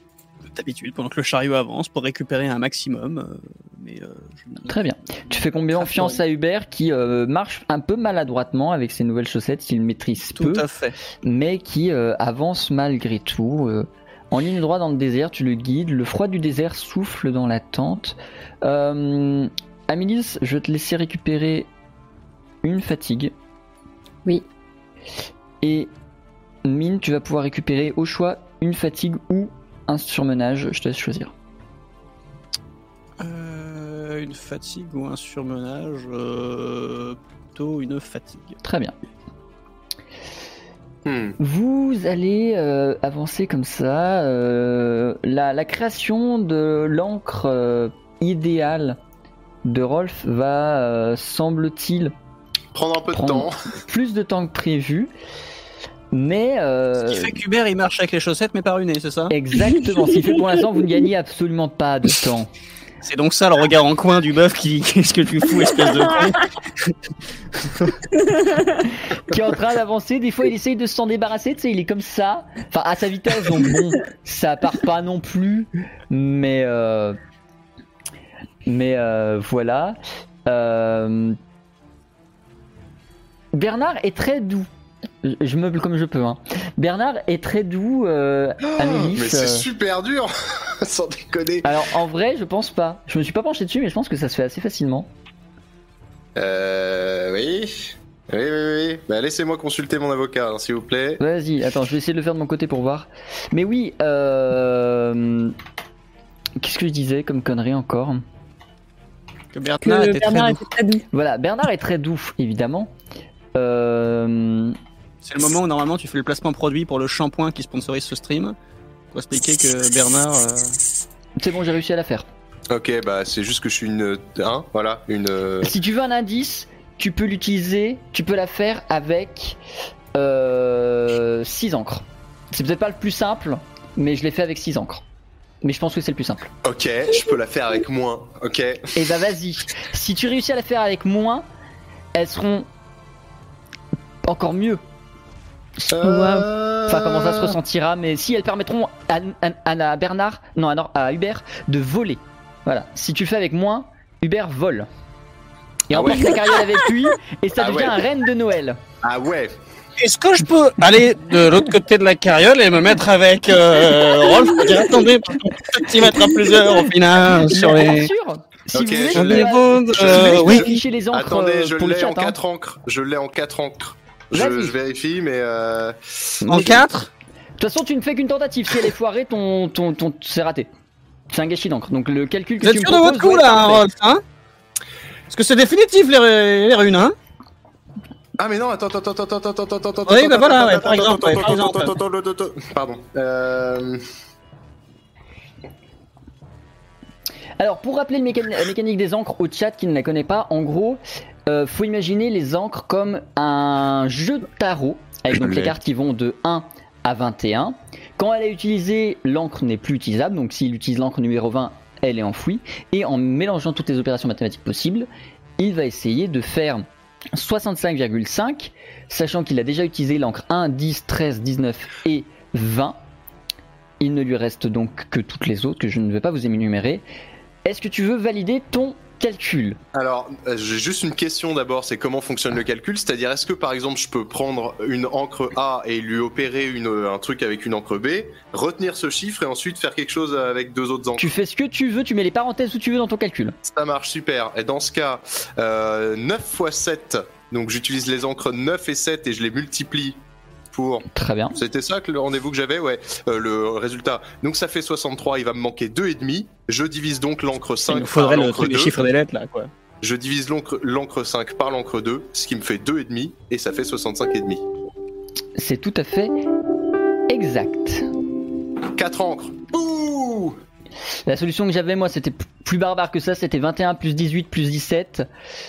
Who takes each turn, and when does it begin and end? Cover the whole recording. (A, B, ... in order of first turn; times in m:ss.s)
0:00.5-0:04.8 A
0:04.7-0:10.6 B
0:05.8-0:06.2 A
0:10.4-0:11.0 A
0:11.2-0:21.7 B
0:22.6-0:23.3 B
0:25.6-0:25.9 B
0:26.6-0:31.3 B
0:33.2-0:38.6 A
0:38.6-0:39.0 B
0:41.0-0:41.4 C
0:41.4-0:49.0 B
0:49.6-0:52.2 B
0:52.7-0:53.6 C
0:53.1-0:55.1 B
0:56.1-0:57.4 B
0:57.0-0:59.4 A
0:59.3-1:02.5 B
0:59.6-1:00.4 D
1:03.0-1:06.9 A
1:07.6-1:08.0 A
1:08.3-1:08.6 D
1:09.2-1:17.2 B
1:18.7-1:21.4 B
1:23.5-1:24.7 B
1:25.2-1:29.7 B
1:28.6-1:31.8 C
1:31.6-1:35.1 B
1:36.4-1:41.2 C
1:41.2-1:45.6 B
1:46.6-1:48.2 B
1:49.5-1:50.6 A
1:49.8-1:51.0 D
1:51.1-1:52.9 B
1:53.6-1:54.8 B
1:55.2-1:58.6 A
1:59.1-2:00.7 A
2:01.4-2:02.3 B
2:02.7-2:05.7 C
2:05.6-2:09.6 B
2:10.2-2:15.0 B
2:15.6-2:16.5 B
2:16.6-2:19.0 C
2:19.0-2:21.5 B
2:22.2-2:22.7 B
2:24.2-2:24.8 B
2:25.9-2:27.6 C
2:25.9-2:26.5 D
2:26.9-2:34.9 B
2:35.9-2:38.8 B
2:35.9-2:36.4 C
2:37.6-2:38.0 C
2:39.0-2:39.6 C
2:40.0-2:48.1 A
2:47.5-2:52.4 B
2:48.7-2:56.0 C
2:49.2-2:50.8 A
2:54.3-2:54.8 B
2:56.4-2:56.9 B
2:56.5-2:57.1 A
2:57.6-3:00.7 B
3:01.3-3:03.8 B
3:02.6-3:04.2 A
3:05.3-3:07.2 A
3:08.4-3:14.0 C
3:10.1-3:11.9 A
3:17.6-3:35.1 B
3:25.3-3:25.7 C
3:35.6-3:43.0 B
3:44.0-3:47.1 B
3:47.6-3:49.8 B
3:49.9-4:01.3 C
4:01.2-4:03.6 B
4:03.6-4:19.0 C
4:11.1-4:11.6 B
4:17.9-4:19.7 A
4:20.0-4:24.6 C
4:25.6-4:26.3 B
4:27.3-4:28.1 B
4:29.0-4:30.6 C
4:31.3-4:35.3 B